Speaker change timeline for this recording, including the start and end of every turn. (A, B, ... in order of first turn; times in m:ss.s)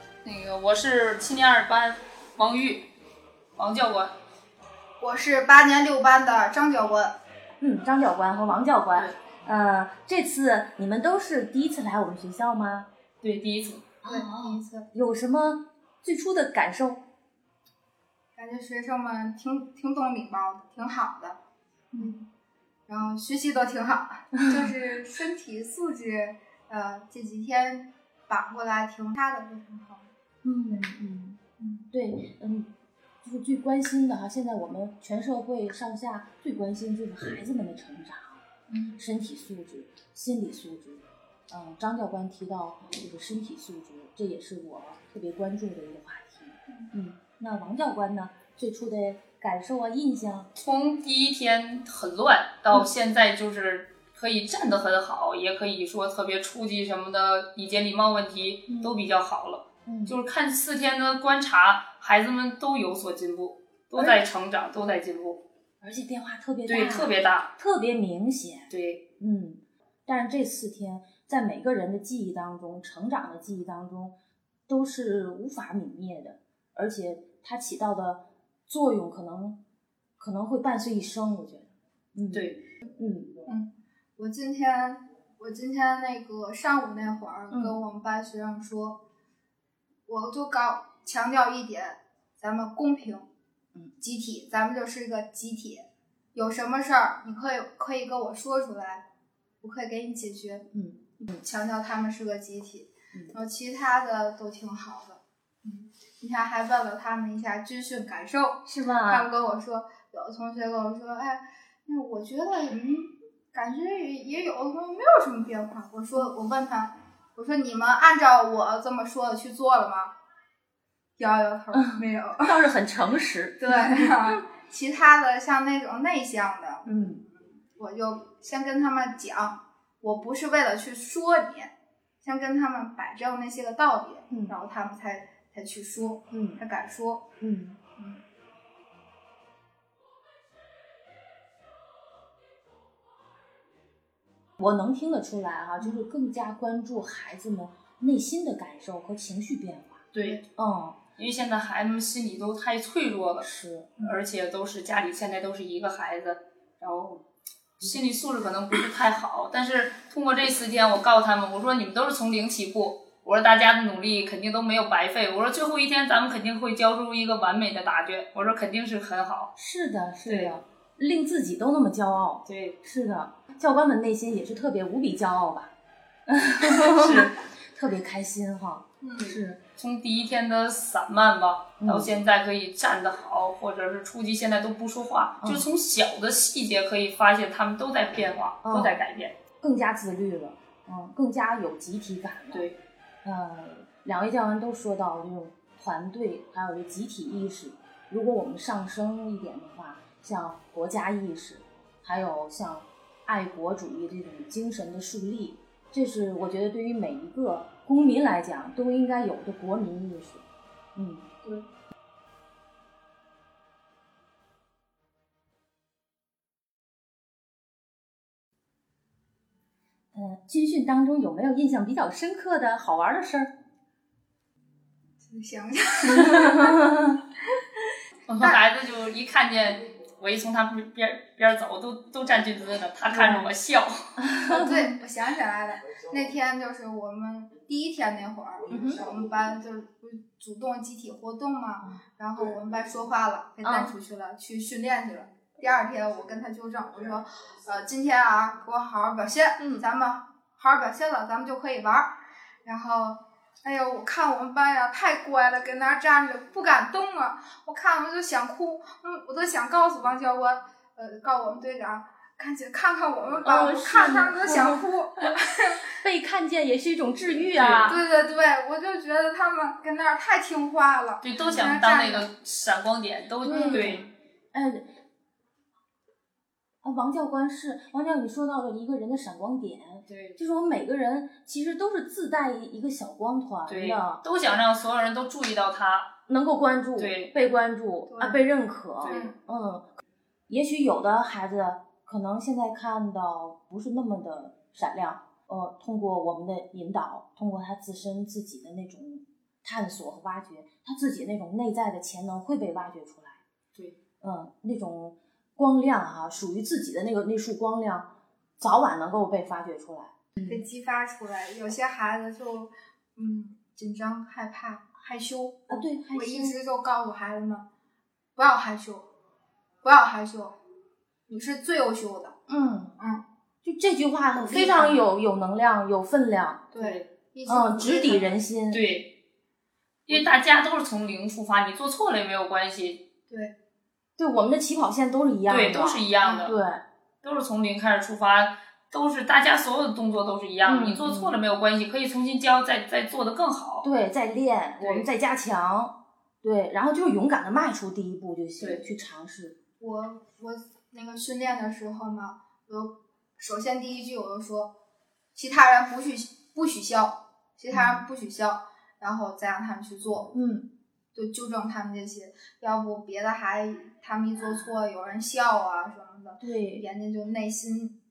0:00.2-0:02.9 A
0:03.6-0:04.1 A
0:05.0-0:07.2 B
0:07.6-0:12.9 C
0:13.2-0:13.9 A
0:14.0-0:17.0 C
0:14.1-0:14.9 B
0:18.4-0:21.4 B
0:21.9-0:22.2 C
0:22.0-0:22.3 B
0:22.9-0:30.1 B
0:30.4-0:31.4 C
0:31.6-0:31.8 B
0:31.9-0:38.4 C
0:38.7-0:39.0 B
0:39.0-0:50.5 C
0:50.6-1:05.4 A
0:58.7-0:59.0 C
0:59.8-1:00.2 C
1:05.8-1:14.2 C
1:06.7-1:07.5 A
1:08.7-1:09.0 A
1:14.7-1:19.6 C
1:20.2-1:23.3 C
1:22.3-1:22.6 A
1:23.5-1:29.0 B
1:27.5-1:27.8 C
1:30.1-1:33.3 B
1:34.0-1:39.0 B
1:39.6-1:40.7 B
1:40.7-1:41.4 C
1:41.4-2:00.1 B
1:48.6-1:49.3 C
2:01.2-2:02.6 B
2:01.7-2:04.4 C
2:03.6-2:17.3 B
2:06.9-2:07.2 C
2:14.3-2:14.6 C
2:16.3-2:16.6 C
2:17.4-2:17.8 C
2:18.0-2:18.2 B
2:24.6-2:31.0 C
2:25.8-2:26.0 B
2:30.1-2:30.4 A
2:31.2-2:33.5 A
2:33.4-2:33.9 C
2:34.0-2:37.2 A
2:37.8-2:49.5 A
2:49.6-2:55.7 C
2:50.3-2:50.6 A
2:52.5-2:52.8 A
2:56.3-2:59.6 C
2:56.7-2:57.4 A
2:59.0-2:59.4 B
2:59.8-3:09.4 A
3:01.8-3:02.1 C
3:05.4-3:05.7 C
3:08.6-3:09.0 C
3:09.6-3:12.7 C
3:12.5-3:12.8 A
3:13.2-3:31.3 C
3:40.1-3:43.5 C
3:45.2-3:46.9 B
3:46.1-3:47.2 C
3:48.3-3:54.1 A
3:53.1-3:53.5 C
3:54.2-3:55.0 C
3:54.5-4:12.1 B
3:58.7-3:59.0 C
4:03.6-4:03.9 C
4:12.6-4:25.9 B
4:23.4-4:24.9 C
4:26.0-4:28.0 C
4:27.5-4:28.0 A
4:27.8-4:32.3 B
4:31.2-4:34.0 A
4:33.4-4:34.9 C
4:33.5-4:34.1 B
4:36.8-4:44.2 C
4:40.1-4:40.4 A
4:43.7-4:46.1 A
4:46.3-5:03.4 C
4:47.0-4:47.3 A
4:48.1-4:48.4 B
4:49.0-4:49.3 A
4:49.0-4:49.3 B
5:04.2-5:10.6 C
5:10.4-5:17.7 B
5:15.7-5:16.6 C
5:18.4-5:19.1 B
5:19.8-5:20.6 B
5:21.3-5:22.4 B
5:22.5-5:23.0 C
5:23.0-5:23.2 B
5:23.6-5:26.7 C
5:24.4-5:25.0 B
5:26.7-5:28.3 B
5:26.8-5:27.1 A
5:27.5-5:28.8 C
5:28.7-5:29.1 A
5:30.1-5:33.0 A
5:34.2-5:36.8 C
5:35.5-5:36.6 A
5:37.2-5:43.9 A
5:40.6-5:41.4 C
5:43.8-5:49.6 C
5:44.8-5:45.1 A
5:49.8-5:54.7 B
5:55.4-6:00.3 B
5:57.7-5:58.0 C
6:00.3-6:00.7 C
6:01.1-6:08.0 B
6:06.4-6:06.9 C